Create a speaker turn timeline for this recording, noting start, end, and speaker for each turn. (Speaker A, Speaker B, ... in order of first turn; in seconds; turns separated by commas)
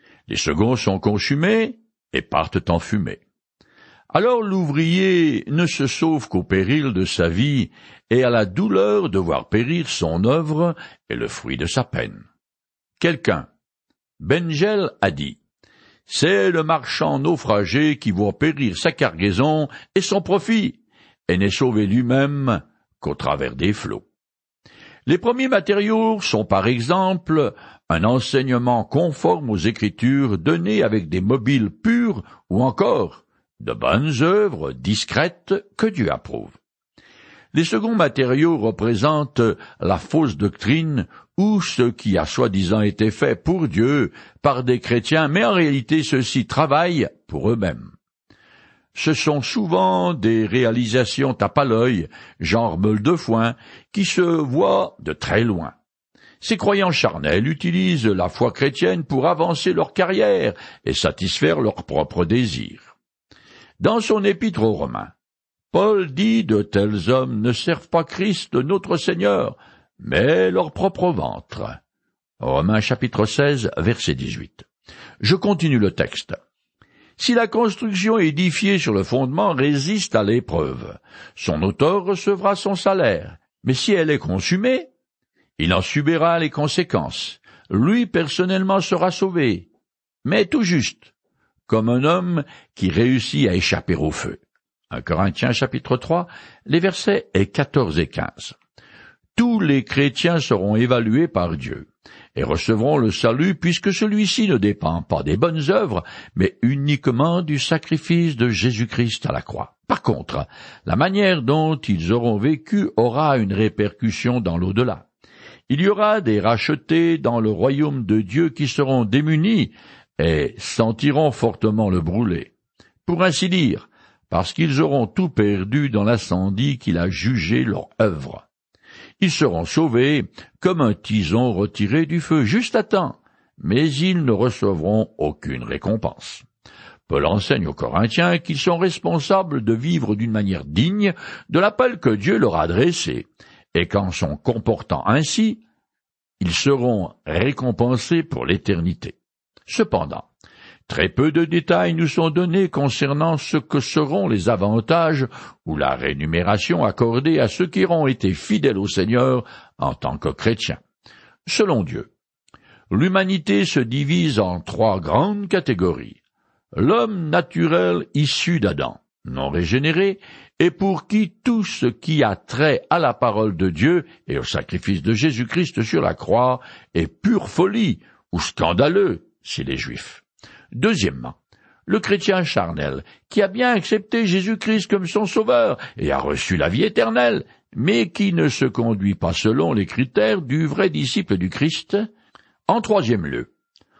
Speaker A: 0.3-3.2, Speaker A: 4.1-12.2, Speaker A: 13.0-13.5, Speaker A: 14.2-15.4, Speaker A: 16.1-24.0, Speaker A: 25.1-36.6, Speaker A: 37.5-47.9, Speaker A: 48.9-55.8, Speaker A: 56.4-62.9, Speaker A: 63.8-65.1, Speaker A: 65.7-71.7, Speaker A: 72.4-74.7, Speaker A: 75.2-76.4, Speaker A: 77.2-84.9, Speaker A: 85.6-89.7, Speaker A: 90.2-91.1, Speaker A: 91.7-94.4, Speaker A: 94.9-98.6, Speaker A: 99.3-115.1, Speaker A: 115.7-122.5, Speaker A: 123.0-128.5, Speaker A: 129.2-136.4, Speaker A: 137.1-145.6, Speaker A: 146.4-150.3, Speaker A: 150.9-160.8, Speaker A: 161.4-162.1, Speaker A: 162.9-166.2, Speaker A: 166.7-181.3, Speaker A: 181.9-192.0, Speaker A: 192.7-193.5